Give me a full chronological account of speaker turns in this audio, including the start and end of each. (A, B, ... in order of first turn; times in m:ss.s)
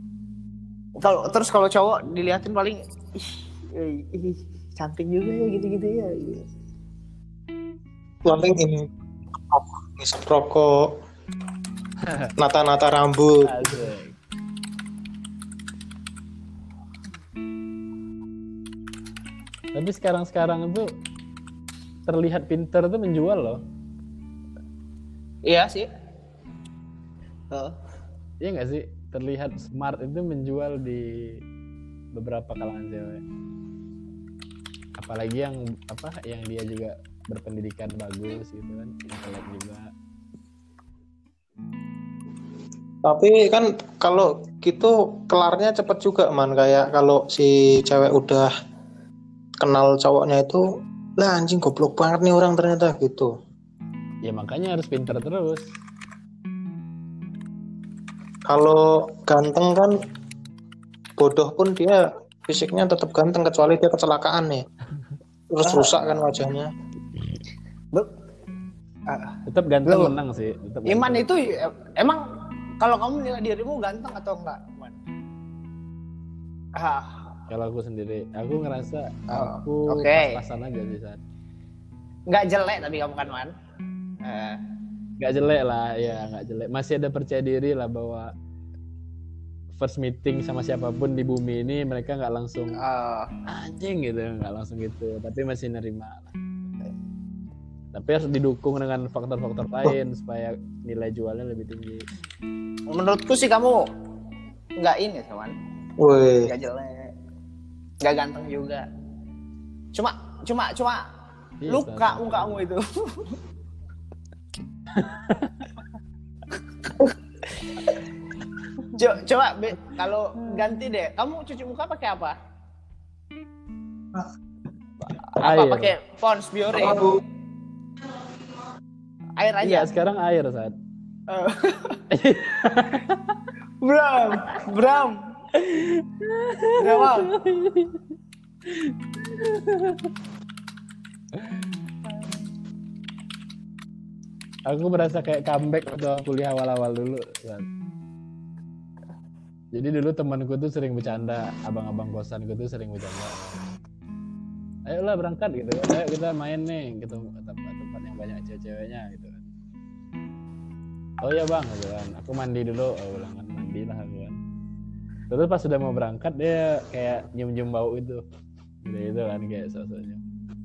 0:01.0-0:06.4 A
0:08.2-0:08.9 B
0:09.5-0:10.8 B
0:12.4-0:13.4 B
0:13.4-0:14.2 C
0:19.7-0:20.8 C
0:22.0-0:23.6 C
0:25.4-0:25.9 A
0:28.4-0:31.0 C
0:32.1-0:33.2 C
0:35.0-0:39.9 C
0:43.0-0:48.5 B
0:49.6-0:50.6 B
0:51.2-0:53.3 B
0:54.2-0:55.6 C
0:58.5-0:59.9 B
1:01.2-1:04.6 B
1:05.5-1:06.7 B
1:05.6-1:06.0 A
1:09.1-1:09.3 A
1:09.5-1:11.3 C
1:09.8-1:10.2 A
1:10.9-1:12.2 A
1:12.8-1:15.0 A
1:16.8-1:17.1 A
1:17.5-1:21.2 C
1:19.3-1:20.4 A
1:22.3-1:23.5 A
1:24.2-1:24.6 A
1:25.2-1:28.3 C
1:29.7-1:32.8 C
1:32.8-1:33.3 A
1:33.5-1:36.4 C
1:37.9-1:42.0 C
1:42.9-1:43.8 A
1:44.8-1:45.5 A
1:46.0-1:46.5 B
1:46.4-1:47.1 A
1:48.0-1:48.8 A
1:49.9-1:51.0 A
1:51.6-1:52.6 C
1:51.7-1:53.3 A
1:55.0-1:55.8 C
1:59.0-2:02.3 A
2:05.4-2:07.1 A
2:05.4-2:05.9 C
2:06.7-2:07.2 B
2:09.4-2:09.9 A
2:09.6-2:10.7 C
2:11.3-2:12.0 A
2:12.1-2:13.4 C
2:13.8-2:15.2 A
2:15.6-2:18.0 C
2:16.8-2:17.3 A
2:18.6-2:20.1 C
2:21.4-2:22.4 C
2:24.7-2:27.6 C
2:29.7-2:33.6 C
2:34.9-2:39.5 C
2:41.2-2:44.4 C
2:45.3-2:48.2 C
2:48.8-2:50.2 C